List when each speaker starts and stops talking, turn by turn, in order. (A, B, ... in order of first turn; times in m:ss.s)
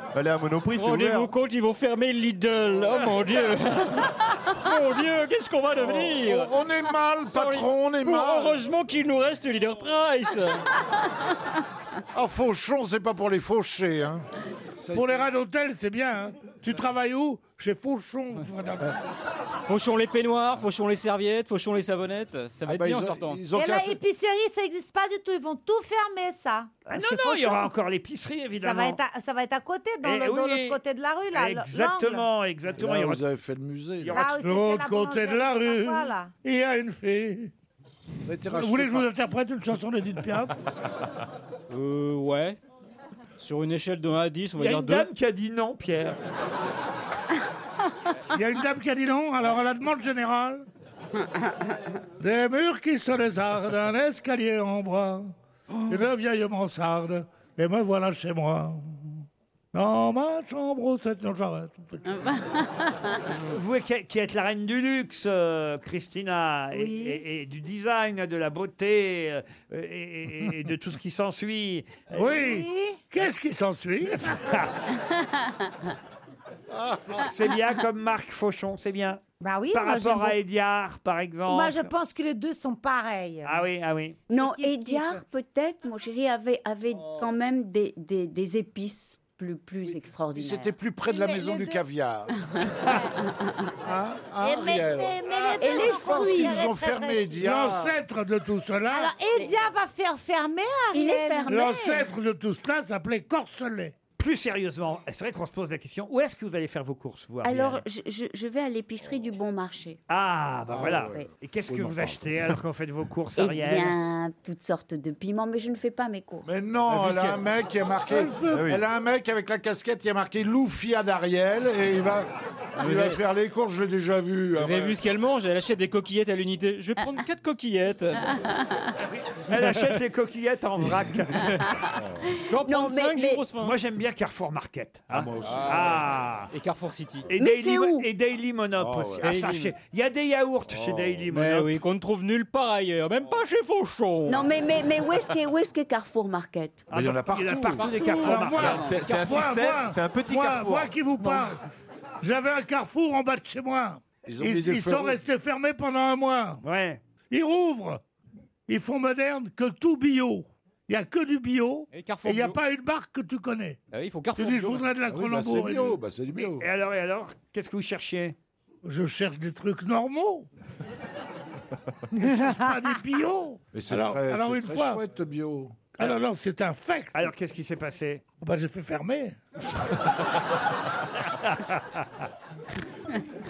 0:00.1-0:01.3 A
0:00.7-0:06.5 B
0:05.8-0:08.6 C
0:07.2-0:10.6 B
0:12.1-0:14.3 C
0:14.8-0:15.3 C
0:14.9-0:19.0 D
0:19.7-0:23.4 B
0:22.7-0:24.0 C
0:23.5-0:27.7 E
0:26.9-0:29.0 F
0:28.6-0:32.3 E
0:30.0-0:30.8 F
0:31.3-0:33.2 F
0:32.8-0:34.2 C
0:34.0-0:34.3 F
0:34.1-0:36.3 E
0:34.4-0:37.5 D
0:38.3-0:39.1 C
0:38.5-0:40.6 D
0:41.7-0:42.6 B
0:43.4-0:45.1 B
0:44.6-0:46.2 F
0:48.3-0:50.7 D
0:52.2-0:55.3 D
0:55.9-1:02.0 D
1:02.1-1:02.5 G
1:03.5-1:12.2 F
1:12.1-1:14.6 D
1:12.4-1:13.0 E
1:14.5-1:14.7 F
1:17.2-1:21.9 F
1:19.4-1:20.4 E
1:21.5-1:23.6 E
1:23.4-1:24.2 F
1:24.3-1:30.8 G
1:24.5-1:25.2 E
1:30.3-1:32.3 C
1:31.0-1:31.8 E
1:32.6-1:33.5 G
1:33.8-1:38.0 C
1:34.4-1:37.4 E
1:35.6-1:36.7 G
1:37.4-1:39.1 D
1:38.9-1:42.1 E
1:40.9-1:41.7 G
1:41.4-1:44.0 D
1:44.2-1:47.8 F
1:47.4-1:50.0 G
1:50.1-1:54.0 F
1:50.7-1:52.2 C
1:50.9-1:51.3 G
1:53.4-1:56.5 G
1:56.4-2:05.0 C
1:57.0-1:57.3 B
1:58.1-1:58.7 D
1:58.5-1:58.8 A
2:02.8-2:03.2 B
2:04.6-2:08.4 B
2:09.1-2:11.5 F
2:12.5-2:13.8 B
2:12.6-2:13.5 G
2:13.6-2:16.5 F
2:15.1-2:16.0 C
2:15.4-2:15.8 B
2:16.5-2:17.3 B
2:17.3-2:21.7 F
2:17.4-2:18.1 G
2:18.8-2:19.3 C
2:19.2-2:19.7 B
2:20.8-2:21.0 C
2:21.3-2:24.5 B
2:24.3-2:26.8 G
2:26.9-2:28.9 F
2:26.9-2:27.9 C
2:28.2-2:31.6 D
2:28.7-2:31.0 A
2:32.2-2:36.6 D
2:34.2-2:35.2 C
2:36.6-2:37.0 F
2:37.3-2:38.0 D
2:38.7-2:43.8 D
2:41.9-2:42.6 B
2:43.9-2:44.9 B
2:44.4-2:46.0 D
2:45.0-2:46.7 C
2:46.4-2:48.4 F
2:48.8-2:50.5 D
2:52.2-2:55.0 D
2:53.7-2:55.8 C
2:56.0-2:57.3 D
2:57.1-2:58.2 F
2:58.4-2:59.4 D
3:01.4-3:02.0 F